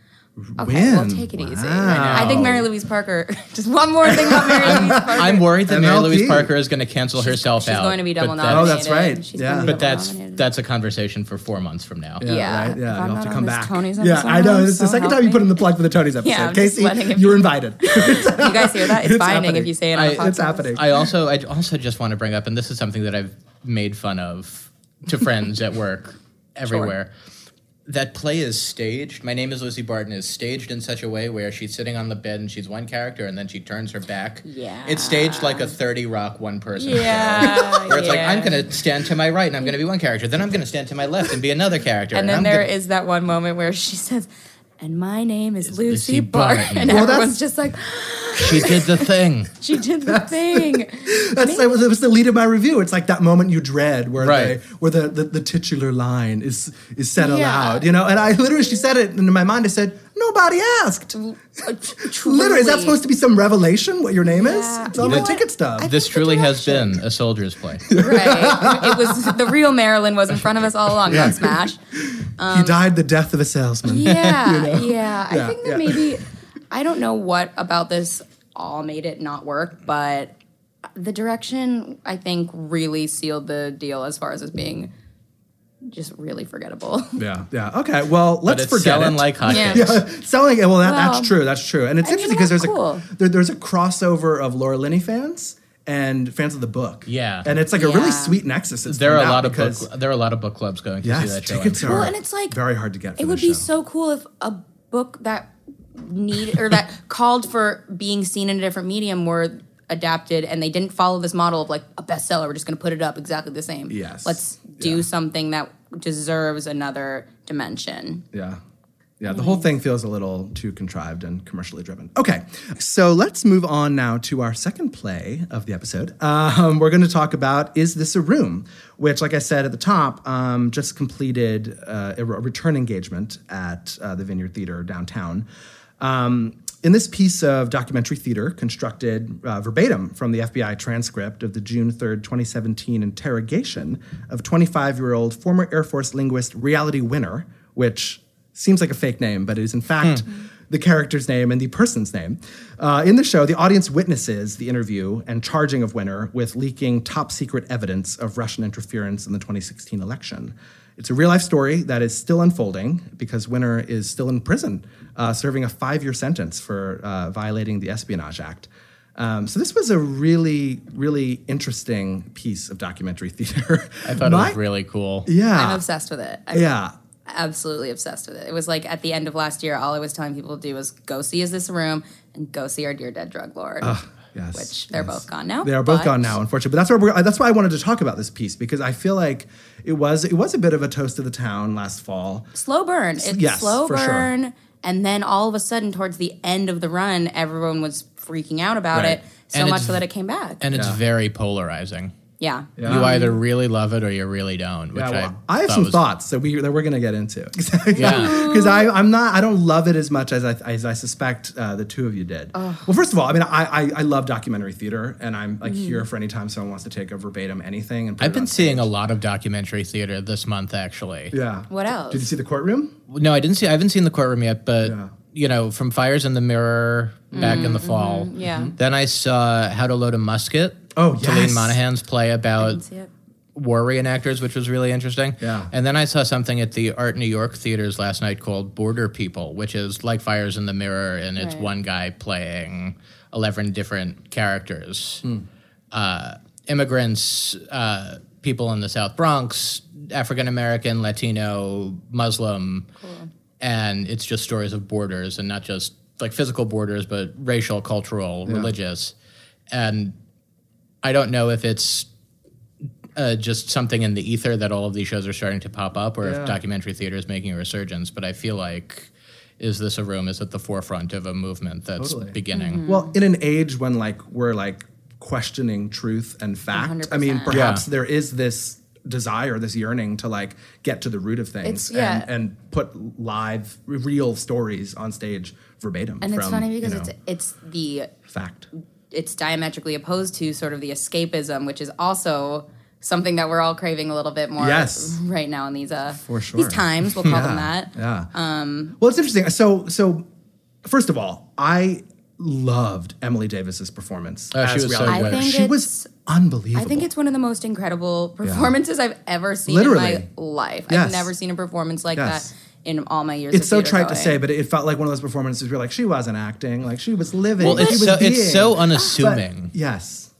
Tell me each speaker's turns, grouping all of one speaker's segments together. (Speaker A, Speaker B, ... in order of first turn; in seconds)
Speaker A: 0.4-2.6, 4.0-6.5, 8.5-9.7, 12.2-21.0, 37.5-37.9, 46.9-47.3, 50.1-61.1, 61.9-65.9, 67.9-69.4, 71.0-76.2, 87.2-99.9, 101.0-103.7, 113.9-115.0, 118.3-118.6, 119.2-135.4, 136.0-174.6, 175.2-175.8, 176.5-176.9, 183.8-192.5, 193.2-194.3, 198.9-199.2, 200.7-201.0, 202.8-203.1, 204.9-218.9, 221.3-222.9, 224.8-225.1, 227.4-227.7, 228.4-228.7, 230.9-231.8, 235.4-235.7, 258.4-258.7, 266.2-266.6, 272.0-287.1, 288.3-288.7, 294.6-295.2, 296.1-298.3, 299.0-300.2, 300.8-307.1, 308.4-308.7, 309.6-310.3, 310.9-311.3, 312.1-312.5, 313.5-320.3
Speaker B: 0.6-5.5, 7.2-10.4, 12.2-15.5, 16.2-20.8, 26.7-26.9, 34.4-35.7, 36.8-38.6, 42.1-44.3, 44.8-51.7, 57.2-57.9, 61.1-63.0, 64.2-67.0, 67.9-71.8, 72.4-72.8, 73.8-80.3, 80.9-84.9, 85.8-87.2, 89.5-89.9, 90.8-91.3, 92.0-93.0, 97.7-98.4, 101.8-102.6, 103.2-118.2, 119.3-119.7, 175.5-176.7, 177.3-184.0, 184.5-186.3, 192.5-200.6, 202.4-203.3, 207.9-208.9, 212.5-212.9, 215.6-216.0, 221.7-222.3, 227.3-228.7, 232.6-233.1, 241.4-241.7, 253.0-253.3, 272.5-273.1, 276.7-277.6, 281.6-282.3, 286.2-288.1, 289.1-298.9, 305.1-306.1, 306.7-314.4, 317.6-318.0
Speaker C: 1.8-2.5, 4.6-8.8, 9.6-12.2, 19.9-27.1, 27.9-42.6, 45.6-47.0, 48.4-49.5, 54.2-54.6, 65.0-67.9, 88.5-90.0, 97.1-97.5, 98.8-102.1, 174.0-175.3, 199.5-200.0, 200.6-202.1, 202.8-206.0, 208.0-208.4, 218.2-221.3, 223.1-232.8, 233.5-245.2, 245.9-252.9, 253.6-259.1, 259.7-260.1, 261.0-262.1, 263.1-272.8, 277.5-277.8, 304.5-305.4, 317.6-319.7